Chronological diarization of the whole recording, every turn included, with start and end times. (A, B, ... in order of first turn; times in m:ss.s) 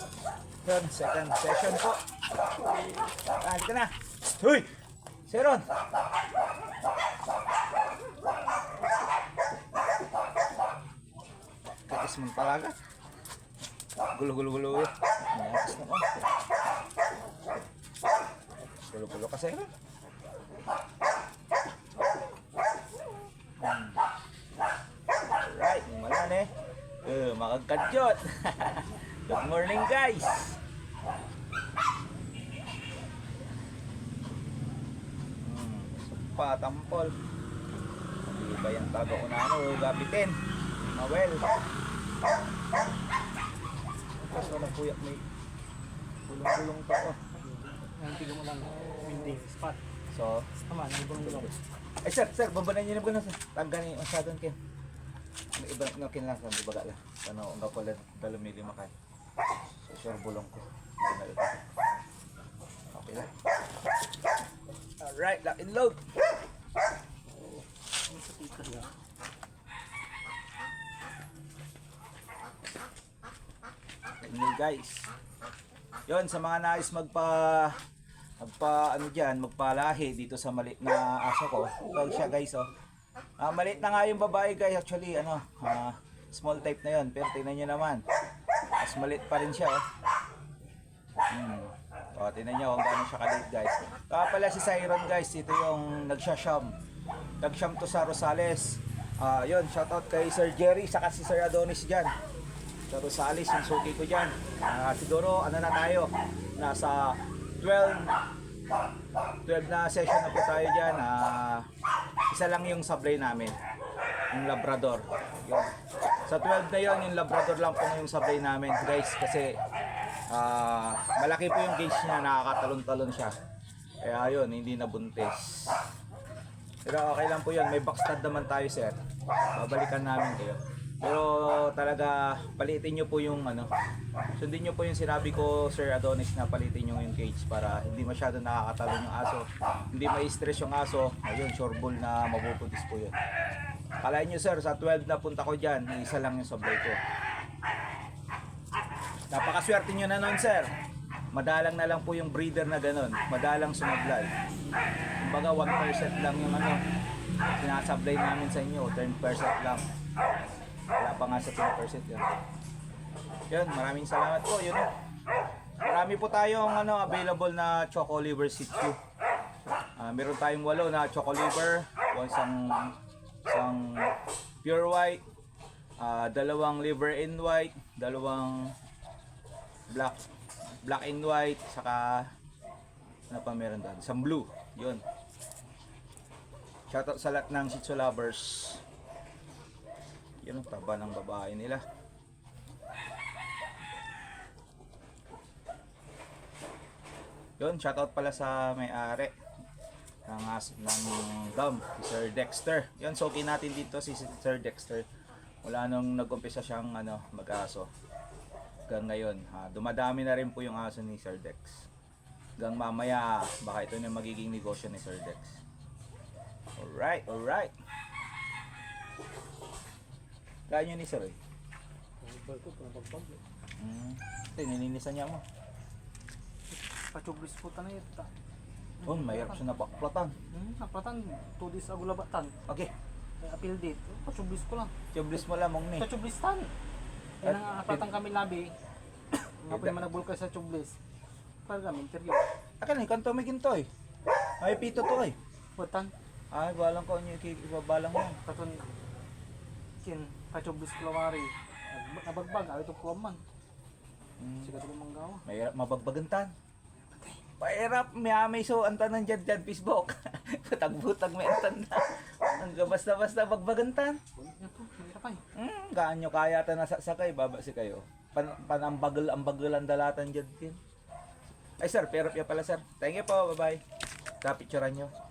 0:00.6-0:02.0 A
0:03.4-0:04.7 A
0:05.3-0:05.7 A
0:11.9-0:12.8 A
0:14.1-0:16.1 A
0:18.8-0:19.7 A
0:23.6-0:24.0 A
0:25.3-0:26.5 A
0:27.0-0:30.6 A
0:35.4-0:37.1 A
0:38.2-0:40.4 A
0:40.9-0:41.5 A
0:44.3-0:45.2 A
0:46.3-0:47.2 A
0:47.4-0:49.8 B
0:50.1-0:50.5 A
0:50.6-0:51.6 B
0:52.0-0:54.6 A
0:55.6-0:58.9 A
0:59.8-1:01.6 A
1:02.9-1:03.3 A
1:05.0-1:06.0 A
1:08.1-1:08.9 B
1:14.2-1:15.0 A
1:16.1-1:17.8 A
1:18.4-1:22.7 A
1:23.4-1:28.0 A
1:28.8-1:29.8 A
1:31.3-1:36.7 A
1:37.4-1:42.1 A
1:42.9-1:48.1 A
1:49.5-1:51.7 A
1:52.3-1:53.6 A
1:54.3-1:55.7 A
1:56.3-1:59.6 A
2:00.3-2:03.3 A
2:04.0-2:05.8 A
2:06.8-2:09.0 A
2:09.5-2:13.7 A
2:14.4-2:23.1 A
2:24.0-2:27.0 A
2:29.3-2:30.7 A
2:31.3-2:34.3 A
2:35.2-2:36.8 A
2:37.6-2:39.8 A
2:41.0-2:42.3 A
2:43.5-2:44.9 A
2:45.8-2:49.0 A
2:50.0-2:54.1 A
2:54.6-2:55.2 A
2:56.0-2:58.7 A
2:59.9-3:00.2 A
3:00.8-3:02.3 A
3:03.3-3:05.0 A
3:06.9-3:08.8 A
3:10.4-3:11.8 A
3:17.6-3:19.3 A
3:20.3-3:25.0 A
3:25.6-3:27.9 A
3:28.9-3:31.9 A
3:32.6-3:35.6 A
3:36.8-3:37.7 A
3:40.7-3:41.4 A
3:42.2-3:43.4 B
3:43.8-3:45.4 A
3:46.7-3:48.3 B
3:49.0-3:49.6 B
3:49.1-3:50.3 A
3:50.5-3:52.5 B
3:52.7-3:52.9 A
3:53.4-3:54.9 B
3:55.1-3:56.1 A
3:56.0-3:56.7 B
3:57.4-3:58.7 B
3:57.4-3:58.1 A
3:59.3-4:01.0 B
3:59.7-4:00.0 A
4:01.7-4:02.5 B
4:02.8-4:03.9 A
4:04.6-4:05.4 A
4:05.8-4:06.1 B
4:06.5-4:08.4 A
4:08.4-4:08.8 B
4:10.0-4:13.4 B
4:14.4-4:14.7 A
4:14.6-4:15.4 B
4:15.4-4:16.5 A
4:17.6-4:24.2 A
4:24.4-4:25.4 B
4:25.6-4:30.8 A
4:31.8-4:33.8 A
4:34.4-4:35.1 A